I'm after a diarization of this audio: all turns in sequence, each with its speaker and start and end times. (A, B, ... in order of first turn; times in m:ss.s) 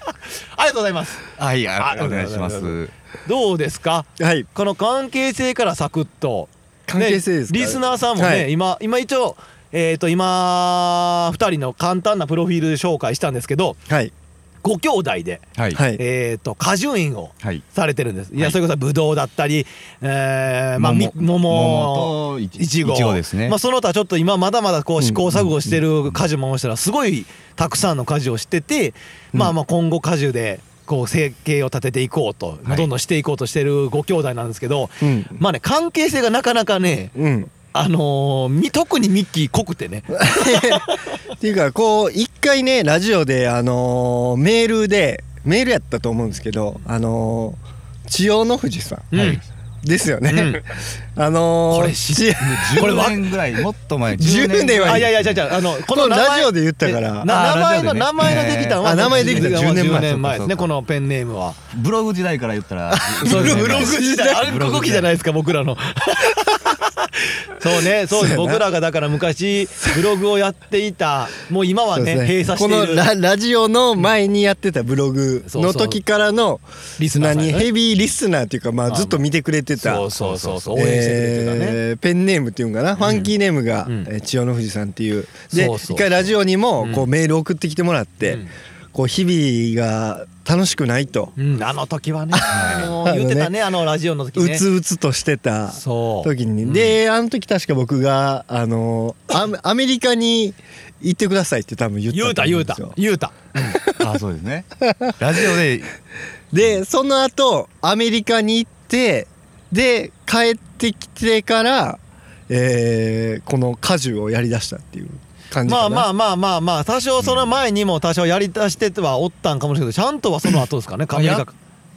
0:00.5-0:13.8 A
0:01.4-0:02.9 B
0:04.2-0:04.5 C
0:06.9-0:08.5 C
0:13.9-0:14.1 C
0:14.6-0:41.0 A
0:15.6-0:15.8 B
0:15.7-0:16.0 C
0:20.8-0:23.6 B
0:25.0-0:25.3 C
0:35.0-0:35.4 C
0:37.2-0:37.5 C
0:40.1-0:52.9 C
0:49.1-0:49.4 A
0:50.3-0:50.6 A
0:51.7-0:53.3 A
0:52.4-0:55.4 B
0:54.2-0:55.1 C
0:54.8-1:01.6 A
0:55.9-0:57.3 C
0:57.2-0:59.6 B
0:58.8-1:00.4 C
1:00.2-1:00.7 B
1:01.7-1:05.1 B
1:02.9-1:04.4 C
1:03.2-1:13.1 A
1:08.1-1:08.6 C
1:11.9-1:20.1 C
1:15.4-1:16.0 A
1:17.0-1:17.7 A
1:18.9-1:19.2 A
1:19.7-1:21.8 A
1:20.3-1:20.6 B
1:20.7-1:28.4 C
1:23.0-1:23.3 A
1:25.5-1:26.1 A
1:26.8-1:27.1 A
1:28.2-1:28.5 A
1:28.9-1:31.3 C
1:31.4-1:34.6 A
1:32.3-1:33.5 C
1:32.5-1:32.9 B
1:34.3-1:43.0 C
1:35.7-1:37.0 A
1:42.1-1:43.8 A
1:43.7-1:44.1 C
1:44.0-1:45.9 B
1:44.9-1:45.6 C
1:46.5-1:56.1 C
1:55.6-2:01.5 A
1:57.2-1:57.6 B
2:01.1-2:01.4 B